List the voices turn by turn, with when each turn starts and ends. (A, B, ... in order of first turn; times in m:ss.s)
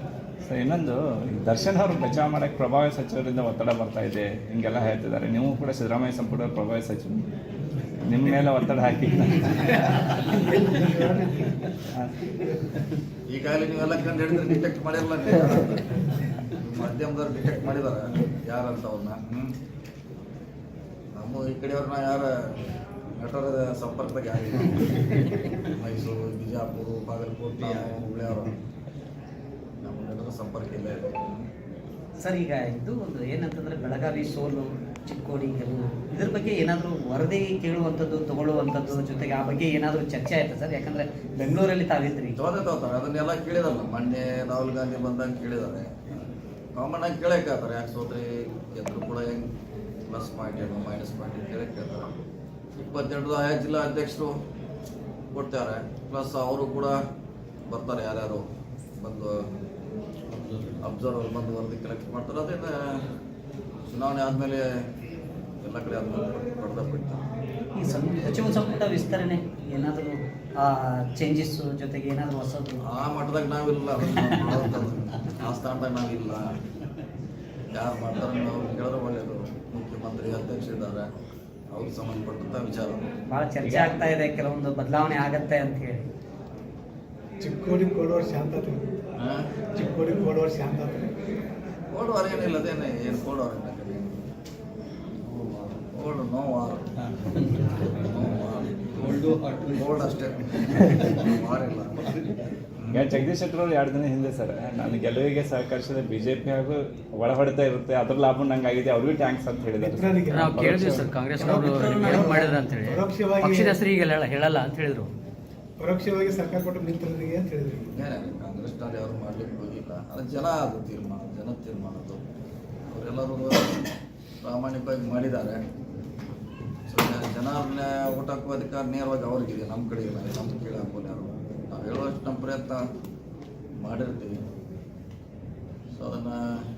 0:00.4-0:07.2 A
0:08.0-0:10.2 A
0:10.3-0:11.6 B
0:13.3-0:19.5 C
0:21.1-0:22.5 C
0:23.1-0:28.6 C
0:29.8-0:31.4 C
0:32.2-0:42.4 D
0:42.4-0:46.2 C
0:46.7-0:49.5 C
0:50.1-0:52.1 C
0:52.8-0:54.3 C
0:55.3-0:57.0 C
0:57.7-0:58.4 C
0:59.0-0:59.4 C
1:00.8-1:03.0 C
1:03.9-1:04.8 C
1:05.6-1:07.2 C
1:07.7-1:12.8 D
1:12.8-1:16.6 C
1:17.7-1:21.1 C
1:21.7-1:23.1 C
1:23.3-1:26.0 D
1:23.6-1:24.0 A
1:27.4-1:28.9 B
1:29.2-1:29.5 C
1:29.7-1:31.1 B
1:31.9-1:34.2 C
1:35.9-1:36.9 C
1:37.8-1:42.1 C
1:39.1-1:39.7 E
1:42.8-1:43.0 C
1:42.9-1:51.2 A
1:49.8-1:53.8 B
1:50.3-1:55.1 E
1:51.3-1:52.5 D
1:55.8-1:57.8 B
1:57.9-2:02.2 C
2:02.9-2:03.8 C
2:04.4-2:05.6 C
2:06.9-2:12.8 C
2:13.8-2:14.4 C
2:15.9-2:16.6 C